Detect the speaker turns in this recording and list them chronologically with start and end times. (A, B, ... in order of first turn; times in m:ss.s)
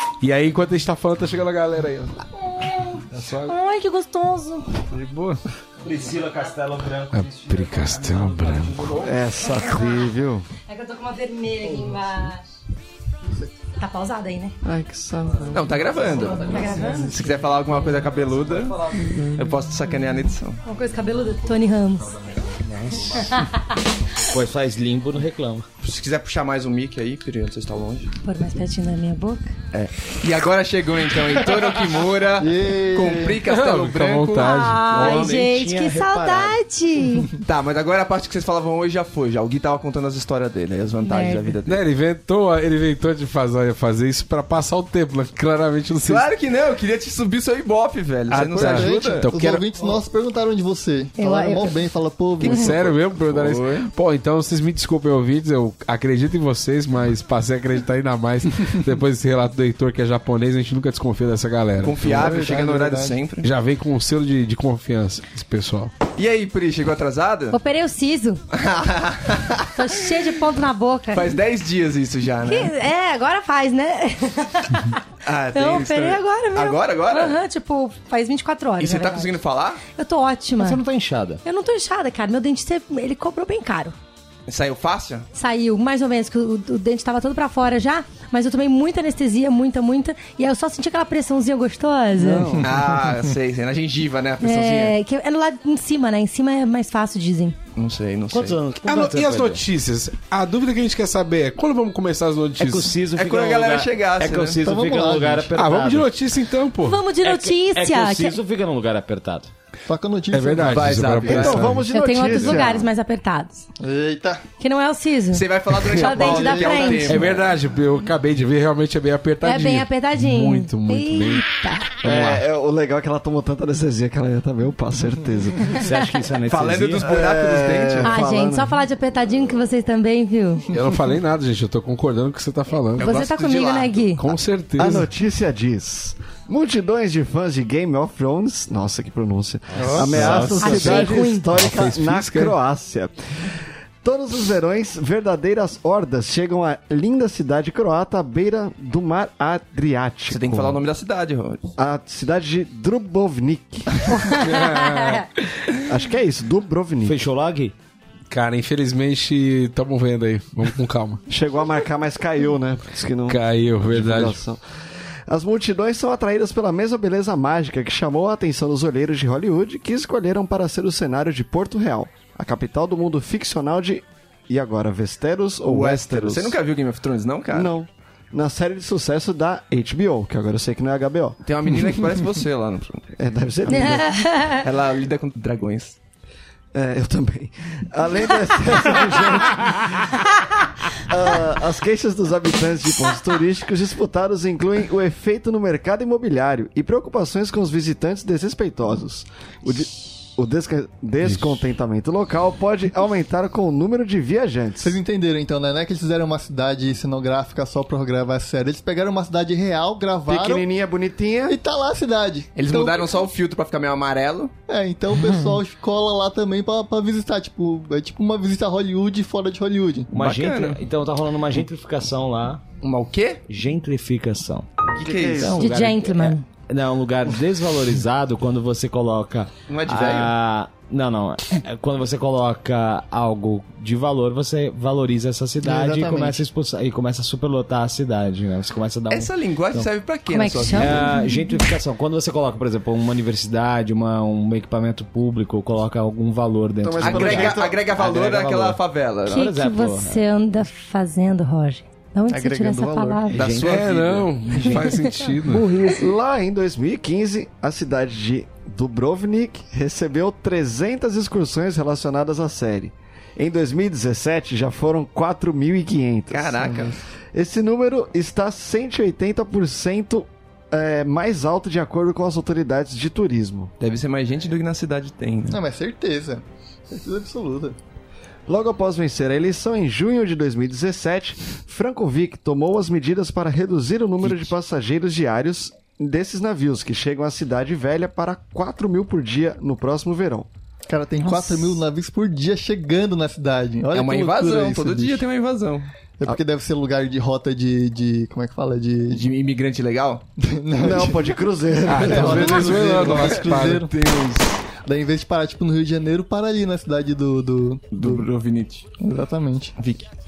0:00.2-0:02.2 A
0:02.5-0:04.7 B
0:03.1-0:03.6 A
0:04.9-0:05.4 A
0:05.8-0:09.1 C
0:07.1-0:09.1 A
0:09.0-0:10.5 D
0:10.7-0:12.4 B
0:13.8-0:14.6 B
0:14.6-0:16.0 D
0:15.5-0:20.6 E
0:16.3-0:17.4 B
0:20.6-0:22.1 B
0:22.6-0:23.4 C
0:23.1-0:23.8 B
0:24.2-0:25.7 C
0:25.8-0:28.1 E
0:28.2-0:29.5 B
0:29.7-0:34.6 E
0:32.4-0:33.4 F
0:33.4-0:35.4 A
0:34.3-0:37.3 B
0:34.9-0:36.6 C
0:37.4-0:41.8 E
0:41.0-0:41.5 B
0:41.7-0:46.3 A
0:46.0-0:49.3 E
0:48.3-0:49.6 A
0:48.4-0:52.8 F
0:51.2-0:51.8 B
0:52.4-0:53.9 E
0:52.4-1:02.3 A
1:01.8-1:03.5 E
1:02.1-1:03.2 F
1:03.4-1:05.9 A
1:06.2-1:07.6 E
1:07.5-1:08.4 B
1:08.5-1:10.4 E
1:09.8-1:11.4 B
1:11.1-1:12.7 E
1:12.4-1:15.0 B
1:15.2-1:17.4 E
1:15.6-1:19.4 B
1:18.8-1:19.8 E
1:20.0-1:20.8 B
1:20.6-1:21.4 C
1:21.4-1:24.0 B
1:24.5-1:25.3 E
1:25.3-1:32.6 B
1:32.2-1:32.7 C
1:32.4-1:32.8 F
1:32.6-1:35.0 E
1:34.4-1:37.6 B
1:37.8-1:38.6 E
1:38.3-1:39.6 C
1:38.8-1:43.0 A
1:42.6-1:46.1 C
1:43.2-1:44.6 E
1:44.6-1:45.6 F
1:45.6-1:47.0 A
1:46.8-1:48.4 B
1:47.2-1:49.5 C
1:49.9-1:51.6 F
1:50.3-1:51.9 A
1:50.7-1:51.7 E
1:51.2-1:52.9 D
1:51.9-1:53.7 B
1:53.8-1:54.4 F
1:54.6-1:57.3 B
1:55.3-1:57.5 E
1:55.8-1:56.2 A
1:56.1-1:57.2 F
1:57.1-2:01.4 A
1:59.4-2:01.9 B
2:02.0-2:02.4 A
2:02.0-2:05.9 D
2:02.1-2:02.4 C
2:05.7-2:07.1 C
2:06.5-2:08.2 E
2:07.0-2:08.7 D
2:08.0-2:10.6 B
2:10.7-2:13.1 A
2:13.0-2:14.0 E
2:13.0-2:14.3 B
2:14.2-2:15.1 A
2:14.8-2:30.8 D
2:19.8-2:20.2 F
2:19.8-2:22.5 A
2:20.2-2:20.5 C
2:20.6-2:21.5 B
2:30.3-2:31.6 E
2:31.8-2:34.1 D
2:34.1-2:35.2 B
2:34.3-2:35.5 A
2:35.8-2:37.2 D
2:37.1-2:37.7 C
2:38.3-2:41.2 A
2:41.3-2:44.6 D
2:43.3-2:44.4 A
2:45.3-2:56.6 D
2:55.7-2:57.7 E
2:57.5-3:01.4 D
3:01.4-3:03.1 E
3:03.2-3:04.1 D
3:03.7-3:04.6 B
3:04.5-3:06.0 E
3:06.7-3:10.0 D
3:11.0-3:25.0 D
3:24.8-3:30.7 F
3:30.3-3:31.6 D
3:31.5-3:33.0 F
3:32.6-3:34.5 E
3:34.7-3:40.1 F
3:40.1-3:42.6 C
3:40.2-3:40.8 E
3:42.8-3:43.4 E
3:43.5-3:44.7 C
3:45.0-3:45.6 D
3:45.0-3:45.5 E
3:45.2-3:59.9 C
3:45.6-3:46.4 B
3:49.7-3:50.3 E
3:55.6-3:56.4 F
3:59.1-4:01.1 E
4:00.3-4:01.6 B
4:00.7-4:10.2 C
4:06.8-4:07.8 D
4:07.0-4:09.5 E
4:09.3-4:13.4 B
4:12.3-4:13.3 F
4:13.3-4:13.9 C
4:13.3-4:14.9 E
4:13.6-4:15.7 A
4:14.6-4:16.1 B
4:15.8-4:33.7 D
4:26.3-4:27.0 E
4:33.8-4:35.6 E
4:35.5-4:37.8 F
4:38.5-4:50.5 D
4:50.9-4:55.2 F
4:51.2-4:51.8 B
4:53.9-4:55.9 E
4:56.2-4:59.2 F
4:59.1-5:00.2 E
5:00.4-5:01.3 F
5:00.8-5:03.3 D
5:01.9-5:03.9 A
5:02.0-5:03.9 F
5:02.3-5:04.6 E
5:04.8-5:08.3 F
5:07.9-5:08.9 E
5:09.0-5:09.7 F
5:09.8-5:10.1 E